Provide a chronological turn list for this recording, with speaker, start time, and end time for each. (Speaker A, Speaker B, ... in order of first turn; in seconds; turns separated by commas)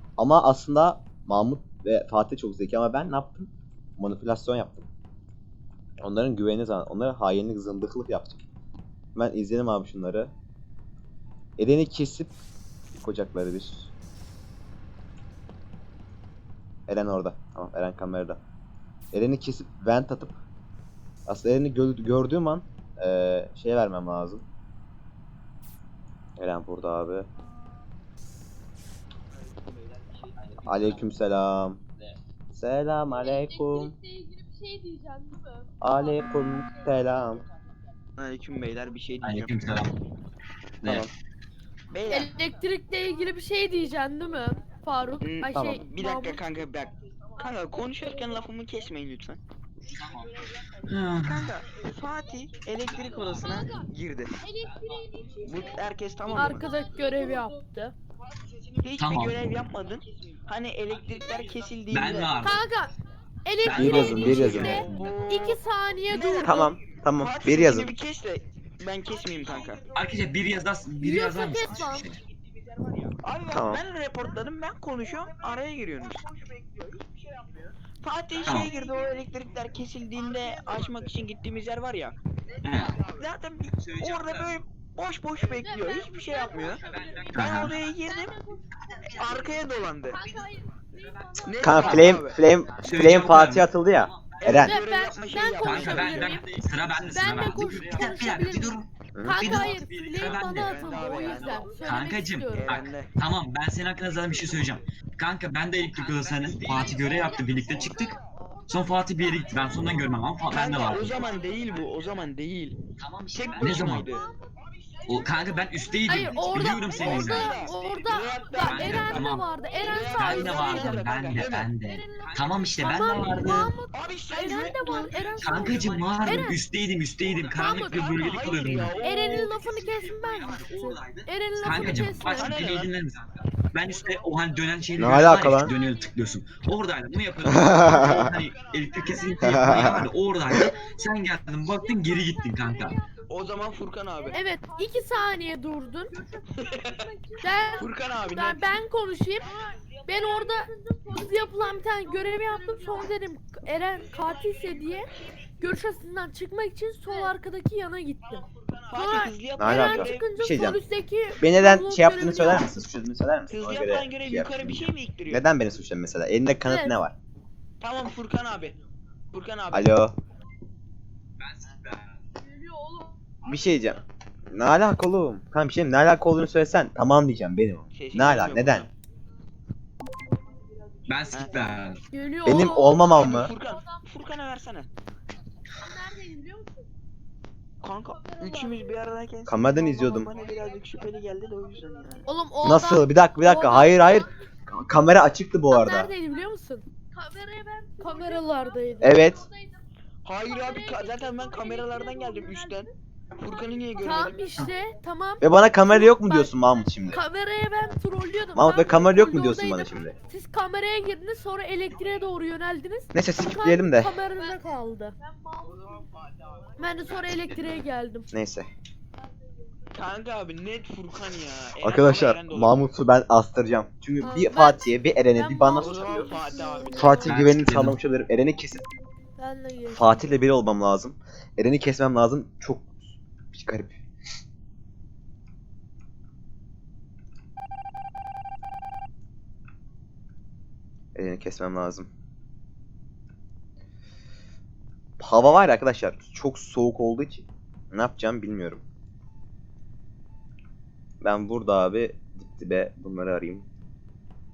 Speaker A: 0.2-4.8, Speaker A: 6.0-8.4, Speaker A: 9.1-10.3, Speaker A: 11.6-12.3, Speaker A: 12.9-13.9, Speaker A: 16.9-18.4, Speaker A: 19.1-20.4, Speaker A: 21.3-24.4, Speaker A: 26.4-27.3, Speaker B: 30.4-30.9, Speaker A: 30.6-31.8, Speaker A: 32.5-33.9, Speaker A: 35.8-37.4, Speaker C: 38.2-39.8, Speaker B: 39.2-39.9, Speaker B: 40.8-41.1, Speaker A: 40.8-41.1, Speaker C: 41.9-42.3, Speaker D: 42.1-46.4, Speaker C: 45.2-49.4, Speaker B: 50.9-51.5, Speaker C: 51.2-54.5, Speaker D: 55.2-55.5, Speaker C: 55.4-56.7, Speaker D: 56.3-57.9, Speaker C: 58.8-62.4, Speaker B: 59.0-59.4, Speaker B: 61.9-62.6, Speaker D: 62.4-62.9, Speaker D: 63.4-66.7, Speaker B: 63.6-65.2, Speaker A: 63.7-64.8, Speaker C: 64.2-65.6, Speaker C: 66.1-69.9, Speaker A: 66.4-67.9, Speaker B: 69.9-72.2, Speaker D: 71.0-72.1, Speaker C: 73.1-82.2, Speaker A: 73.5-73.8, Speaker B: 78.4-78.7, Speaker B: 82.6-83.0, Speaker C: 82.7-88.4, Speaker B: 83.8-84.5, Speaker B: 86.8-87.8, Speaker D: 87.3-87.8, Speaker C: 89.1-90.2, Speaker B: 91.0-94.8, Speaker C: 91.4-92.4, Speaker D: 91.5-92.2, Speaker A: 91.6-94.7, Speaker C: 94.5-96.4, Speaker D: 94.5-96.5, Speaker B: 95.6-101.0, Speaker D: 97.1-102.9, Speaker A: 99.1-99.4, Speaker C: 100.6-103.1, Speaker B: 101.8-108.2, Speaker C: 106.0-107.0, Speaker C: 107.7-107.9, Speaker B: 108.7-111.4, Speaker C: 109.8-112.8, Speaker B: 113.0-114.1, Speaker C: 113.3-114.2, Speaker D: 113.7-114.2, Speaker B: 115.1-117.7, Speaker D: 116.0-126.6, Speaker C: 116.1-121.7, Speaker B: 118.5-119.5, Speaker B: 120.0-123.7, Speaker C: 123.9-126.2, Speaker B: 125.4-129.6, Speaker C: 127.5-129.6, Speaker D: 127.5-132.8, Speaker B: 130.2-143.0, Speaker C: 131.8-132.9, Speaker A: 135.0-135.7, Speaker A: 137.4-138.3, Speaker A: 139.4-140.7, Speaker C: 143.3-144.4, Speaker D: 144.3-146.2, Speaker C: 146.5-147.1, Speaker D: 147.4-155.1, Speaker C: 147.8-148.8, Speaker D: 155.6-162.9, Speaker C: 158.9-160.3, Speaker A: 159.6-160.8, Speaker A: 161.4-167.1, Speaker C: 163.5-165.5, Speaker D: 166.6-166.9, Speaker C: 167.8-168.8, Speaker C: 169.3-169.9, Speaker A: 169.7-170.1, Speaker B: 171.4-172.2, Speaker A: 173.4-178.9, Speaker C: 177.9-178.9, Speaker B: 181.1-182.0, Speaker C: 181.3-181.7, Speaker D: 182.1-183.6, Speaker A: 182.4-183.5, Speaker C: 183.1-184.9, Speaker D: 185.8-186.8, Speaker C: 187.8-192.3, Speaker D: 188.5-188.8, Speaker A: 189.5-190.3, Speaker D: 192.2-194.4, Speaker A: 192.6-196.1, Speaker D: 195.7-199.5, Speaker A: 199.0-199.4, Speaker C: 200.2-204.5, Speaker D: 202.0-202.6, Speaker D: 204.0-215.2, Speaker A: 205.4-207.2, Speaker A: 208.5-210.1, Speaker A: 213.1-214.1, Speaker C: 215.9-216.7, Speaker D: 216.8-218.3, Speaker A: 218.3-218.7, Speaker C: 219.9-222.8, Speaker A: 221.8-226.3, Speaker D: 224.2-227.4, Speaker C: 225.7-227.1, Speaker A: 226.9-228.8, Speaker B: 227.2-228.0, Speaker D: 229.4-230.3, Speaker A: 229.9-233.0, Speaker A: 233.5-234.0, Speaker A: 241.1-242.1, Speaker A: 245.2-248.8, Speaker A: 251.2-253.7